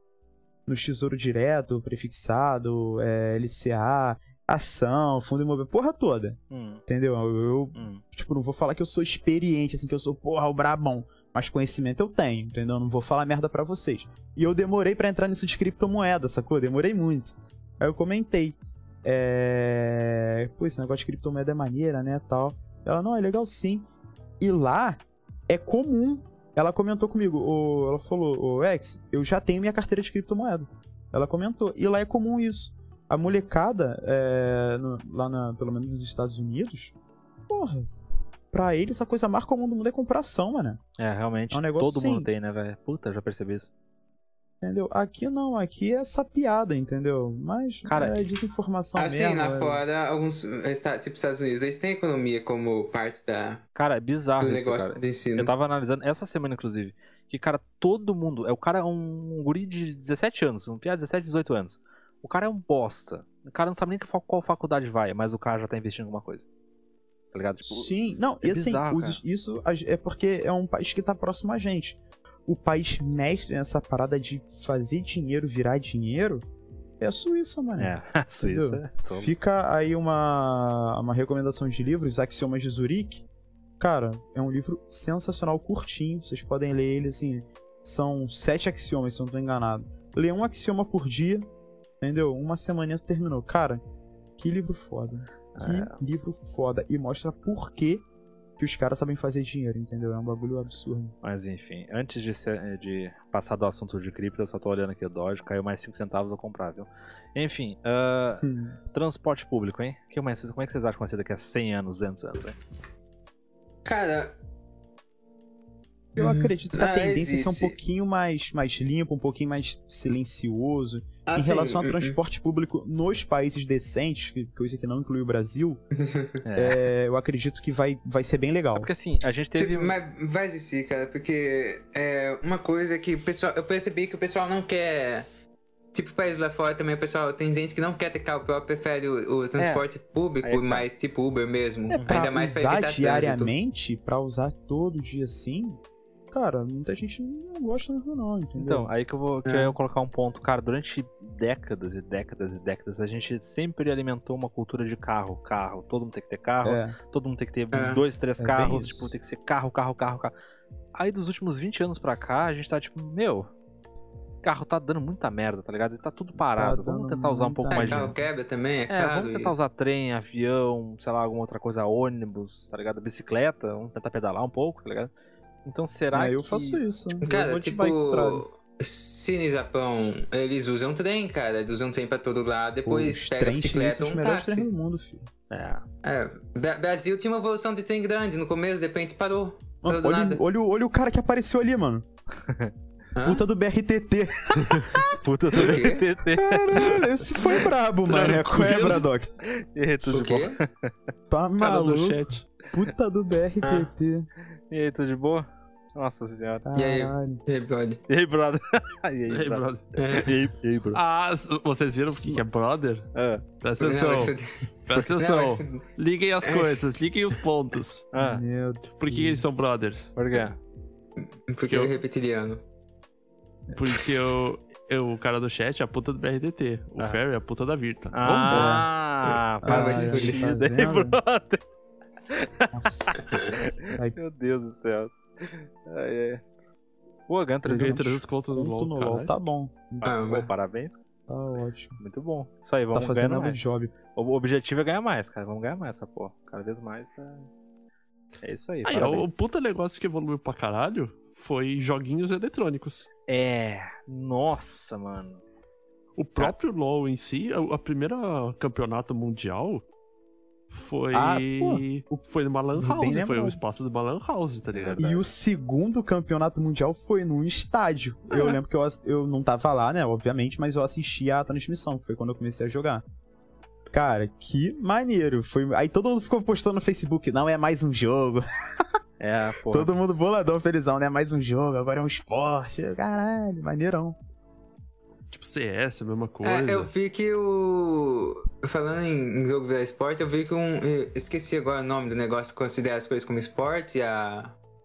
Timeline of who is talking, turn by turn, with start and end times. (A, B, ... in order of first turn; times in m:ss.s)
0:00.7-0:23.9 A
0:06.5-0:06.8 B
0:07.8-0:08.0 B
0:24.4-0:36.9 A
0:37.5-0:37.9 A
0:38.5-0:40.8 A
0:41.0-0:43.7 B
0:41.5-0:42.3 A
0:44.6-0:49.8 A
0:47.9-0:48.2 B
0:49.0-0:53.6 C
0:53.8-1:06.5 B
0:54.4-0:55.5 C
1:07.3-1:09.2 B
1:07.6-1:16.4 A
1:17.0-1:23.2 A
1:17.8-1:19.3 B
1:23.8-1:31.5 A
1:32.0-1:33.8 A
1:34.4-1:38.0 A
1:35.6-1:36.0 B
1:38.6-1:41.1 A
1:41.2-1:52.6 B
1:48.4-1:48.8 A
1:53.8-1:54.4 C
1:56.2-1:57.8 C
1:56.2-2:05.8 A
2:01.3-2:02.2 C
2:06.0-2:06.4 C
2:06.4-2:06.8 B
2:06.6-2:08.9 A
2:08.8-2:10.0 B
2:09.6-2:15.3 C
2:15.9-2:23.5 C
2:19.6-2:19.9 B
2:20.4-2:20.9 B
2:21.9-2:25.8 A
2:21.9-2:22.2 B
2:26.3-2:28.9 A
2:28.6-2:40.3 B
2:29.4-2:29.8 C
2:36.6-2:37.0 A
2:37.7-2:38.0 C
2:38.4-2:39.2 A
2:41.0-2:43.5 B
2:44.4-2:48.2 B
2:46.5-2:48.2 A
2:47.7-2:49.6 C
2:48.9-2:55.1 B
2:55.6-2:56.8 B
2:56.1-2:58.4 A
2:57.2-3:04.7 C
3:02.9-3:05.3 A
3:05.5-3:05.8 B
3:06.0-3:10.4 C
3:09.8-3:12.1 A
3:12.4-3:12.7 B
3:13.2-3:13.4 C
3:13.2-3:15.7 A
3:15.2-3:17.1 B
3:15.5-3:16.0 C
3:16.3-3:19.3 A
3:18.1-3:19.0 D
3:19.4-3:20.9 B
3:20.0-3:20.6 C
3:21.3-3:24.3 A
3:21.6-3:22.4 D
3:23.6-3:23.9 C
3:24.7-3:26.7 B
3:26.6-3:27.4 A
3:26.7-3:28.0 C
3:28.1-3:31.0 B
3:29.3-3:29.8 D
3:30.0-3:30.4 C
3:30.9-3:33.1 D
3:33.1-3:33.4 B
3:33.6-3:34.4 D
3:33.8-3:35.9 C
3:34.9-3:38.1 D
3:36.4-3:36.8 C
3:38.1-3:38.4 B
3:38.2-3:39.4 A
3:39.0-3:40.1 D
3:40.2-3:40.6 B
3:41.5-3:42.6 C
3:41.7-3:41.9 D
3:43.7-3:48.8 D
3:48.1-3:51.6 B
3:48.5-3:48.9 A
3:49.6-3:51.2 A
3:49.6-3:50.5 C
3:52.3-3:56.4 B
3:52.7-3:53.3 A
3:53.2-3:53.5 C
3:53.9-3:54.2 A
3:57.3-3:58.1 B
3:57.6-4:00.1 A
3:57.7-3:59.3 D
4:00.0-4:01.0 B
4:00.0-4:00.5 C
4:01.3-4:02.0 A
4:02.0-4:07.5 B
4:02.9-4:03.9 A
4:08.4-4:09.3 B
4:08.8-4:13.1 D
4:13.3-4:15.4 B
4:16.2-4:19.8 D
4:20.7-4:25.1 D
4:21.1-4:23.6 A
4:24.7-4:25.3 B
4:25.0-4:33.0 A
4:28.3-4:28.6 D
4:33.9-4:38.9 A
4:39.2-4:39.9 B
4:39.7-4:44.2 A
4:45.3-4:46.9 D
4:46.4-4:54.6 C